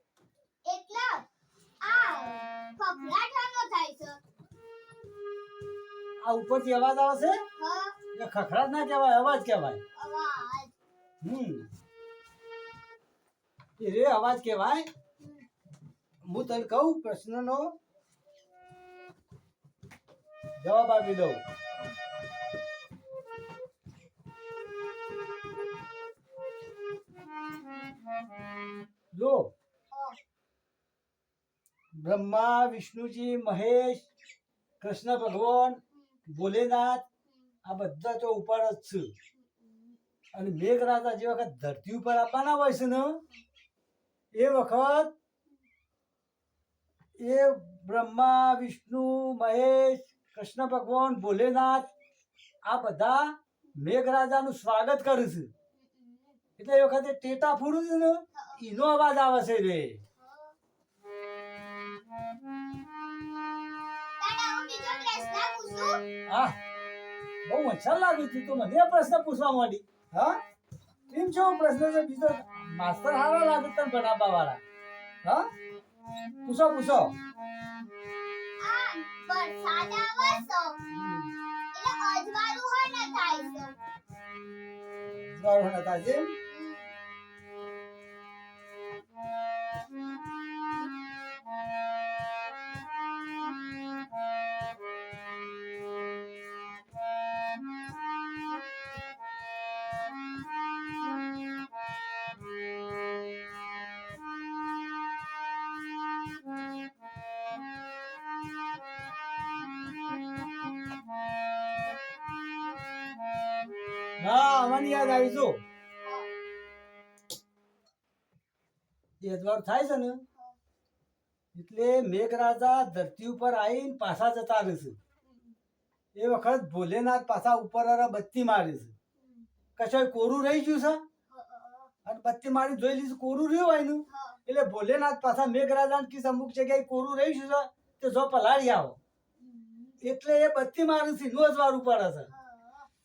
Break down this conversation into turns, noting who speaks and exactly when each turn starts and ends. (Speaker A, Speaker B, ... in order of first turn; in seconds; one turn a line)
Speaker A: 0.6-1.2
Speaker A: 1.8-4.2
Speaker B: 6.2-7.4
Speaker A: 7.6-8.0
Speaker B: 8.1-9.8
Speaker A: 9.9-10.7
Speaker B: 11.2-11.7
Speaker B: 13.8-14.9
Speaker B: 16.2-17.7
Speaker B: 20.6-21.4
Speaker B: 29.1-29.5
Speaker A: 29.9-30.2
Speaker B: 31.9-34.1
Speaker B: 34.8-37.0
Speaker B: 37.6-39.1
Speaker B: 40.3-43.2
Speaker B: 44.3-45.1
Speaker B: 47.2-51.9
Speaker B: 52.6-55.5
Speaker A: 55.8-56.4
Speaker B: 56.6-60.0
Speaker A: 58.3-58.6
Speaker A: 60.2-60.5
Speaker A: 64.2-66.0
Speaker B: 66.3-66.5
Speaker B: 67.5-70.4
Speaker B: 71.1-74.6
Speaker B: 76.4-77.1
Speaker A: 78.6-80.8
Speaker B: 80.9-81.3
Speaker A: 81.7-83.8
Speaker B: 85.2-86.3
Speaker A: 86.5-86.9
Speaker B: 114.2-115.6
Speaker A: 116.0-116.3
Speaker B: 119.2-120.2
Speaker B: 121.5-125.0
Speaker B: 126.1-128.9
Speaker B: 129.8-131.0
Speaker A: 131.3-131.9
Speaker B: 132.0-139.0
Speaker A: 134.1-134.4
Speaker A: 139.4-140.0
Speaker B: 140.0-142.3
Speaker A: 142.3-142.9